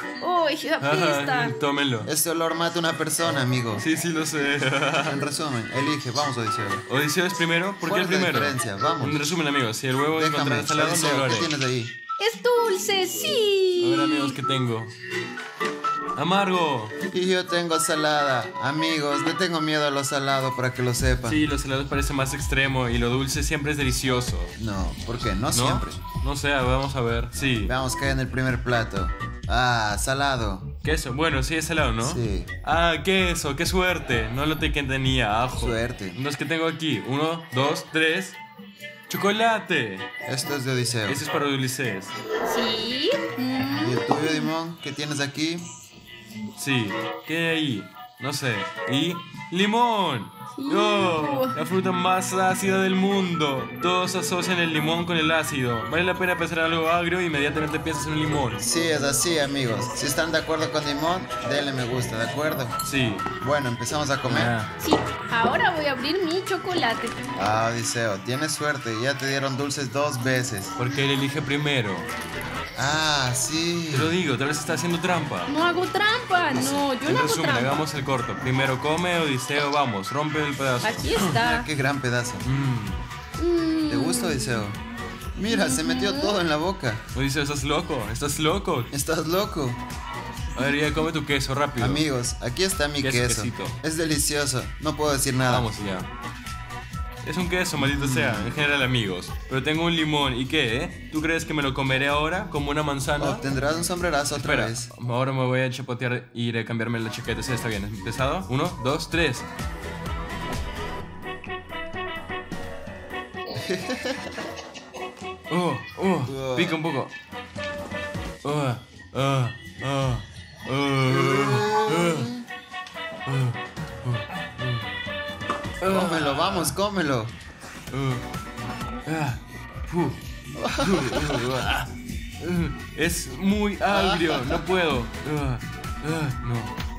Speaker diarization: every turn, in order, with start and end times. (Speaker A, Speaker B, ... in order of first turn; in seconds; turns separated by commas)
Speaker A: 0.2-1.6, Speaker B: 0.8-2.1, Speaker C: 2.0-3.8, Speaker B: 3.8-5.2, Speaker C: 5.0-6.8, Speaker B: 6.9-11.5, Speaker C: 7.8-9.2, Speaker C: 10.1-11.9, Speaker A: 12.2-14.3, Speaker B: 13.8-14.9, Speaker B: 16.2-16.9, Speaker C: 17.1-21.4, Speaker B: 21.2-24.5, Speaker C: 24.6-26.0, Speaker B: 25.5-27.7, Speaker C: 27.7-30.7, Speaker B: 30.8-38.4, Speaker C: 32.0-32.5, Speaker C: 35.6-36.2, Speaker B: 39.1-40.0, Speaker C: 40.2-41.2, Speaker B: 41.1-42.1, Speaker A: 42.5-44.5, Speaker C: 43.8-45.6, Speaker B: 46.6-58.6, Speaker A: 50.6-51.6, Speaker C: 58.6-62.7, Speaker B: 62.8-63.2, Speaker C: 63.4-64.5, Speaker B: 64.2-64.7, Speaker A: 64.8-67.2, Speaker C: 67.3-70.7, Speaker B: 70.8-72.1, Speaker C: 72.8-74.2, Speaker B: 73.9-75.5, Speaker A: 75.5-77.8, Speaker B: 76.6-81.3, Speaker A: 80.8-81.7, Speaker C: 81.3-82.4, Speaker B: 82.4-83.1, Speaker A: 83.4-84.6, Speaker C: 83.9-84.8, Speaker C: 85.3-87.0, Speaker A: 85.5-86.4, Speaker B: 87.1-88.9, Speaker C: 88.9-89.8, Speaker B: 90.5-92.0, Speaker C: 91.8-95.7, Speaker B: 93.0-93.8, Speaker B: 95.5-96.1, Speaker B: 97.2-103.4, Speaker C: 97.8-98.6, Speaker C: 103.2-104.9, Speaker B: 104.4-109.5, Speaker C: 113.5-114.3, Speaker B: 115.5-117.1, Speaker C: 116.2-116.8, Speaker B: 118.4-122.3, Speaker C: 121.1-122.4, Speaker B: 123.2-124.9, Speaker B: 125.8-126.8, Speaker C: 125.9-127.3, Speaker B: 127.9-128.2, Speaker B: 129.1-130.2, Speaker C: 130.6-131.5, Speaker B: 130.8-136.7, Speaker C: 133.9-134.6